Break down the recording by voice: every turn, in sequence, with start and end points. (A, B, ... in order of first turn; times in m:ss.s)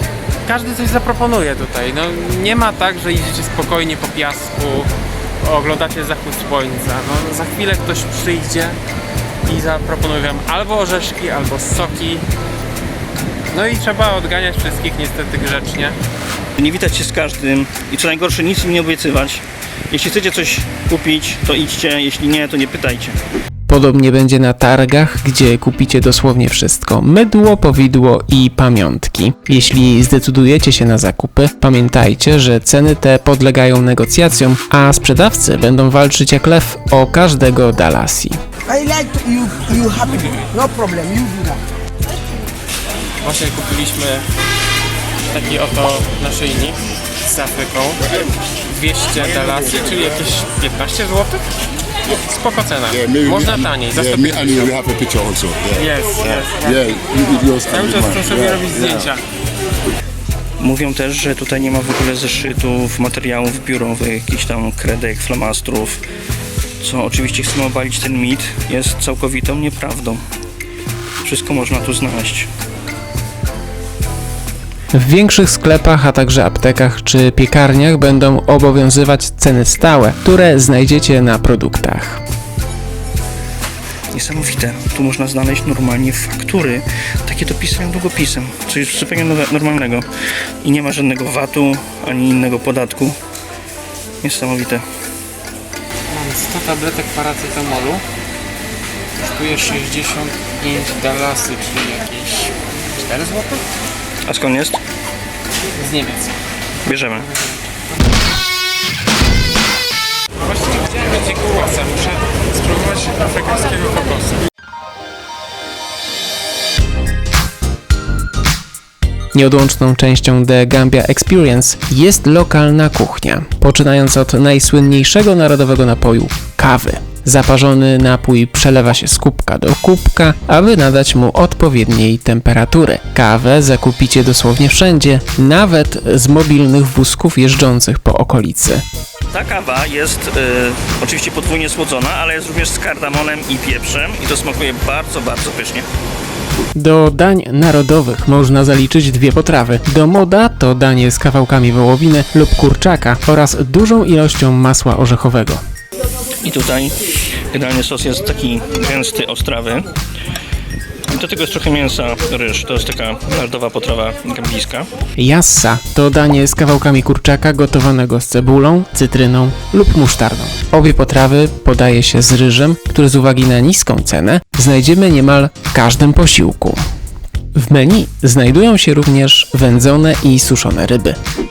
0:00.4-0:04.9 A
0:05.4-0:08.8 A
0:09.4-0:12.2 A
0:13.5-0:16.0 A
0:16.6-0:23.2 B
0:23.7-0:38.4 C
0:38.6-0:41.6 D
0:43.2-0:44.2 A
0:45.3-0:51.4 A
0:52.2-0:54.7 A
0:53.0-0:53.5 E
0:54.2-0:55.8 E
0:55.7-0:59.2 A
0:56.8-0:58.5 E
1:00.6-1:06.0 B
1:06.8-1:10.2 B
1:11.2-1:12.5 B
1:14.9-1:22.2 C
1:24.1-1:30.1 B
1:30.6-1:33.2 B
1:34.2-1:34.8 B
1:36.1-1:38.0 A
1:39.2-1:43.6 A
1:44.2-1:44.8 B
1:45.8-1:46.3 A
1:46.8-1:47.3 B
1:47.2-1:47.5 A
1:50.4-1:54.4 A
1:59.3-2:18.8 C
2:19.3-2:25.9 B
2:26.8-2:35.6 C
2:36.4-2:37.0 B
2:37.5-2:39.9 B
2:41.1-2:44.9 B
2:45.2-2:56.8 C
2:57.5-3:01.2 C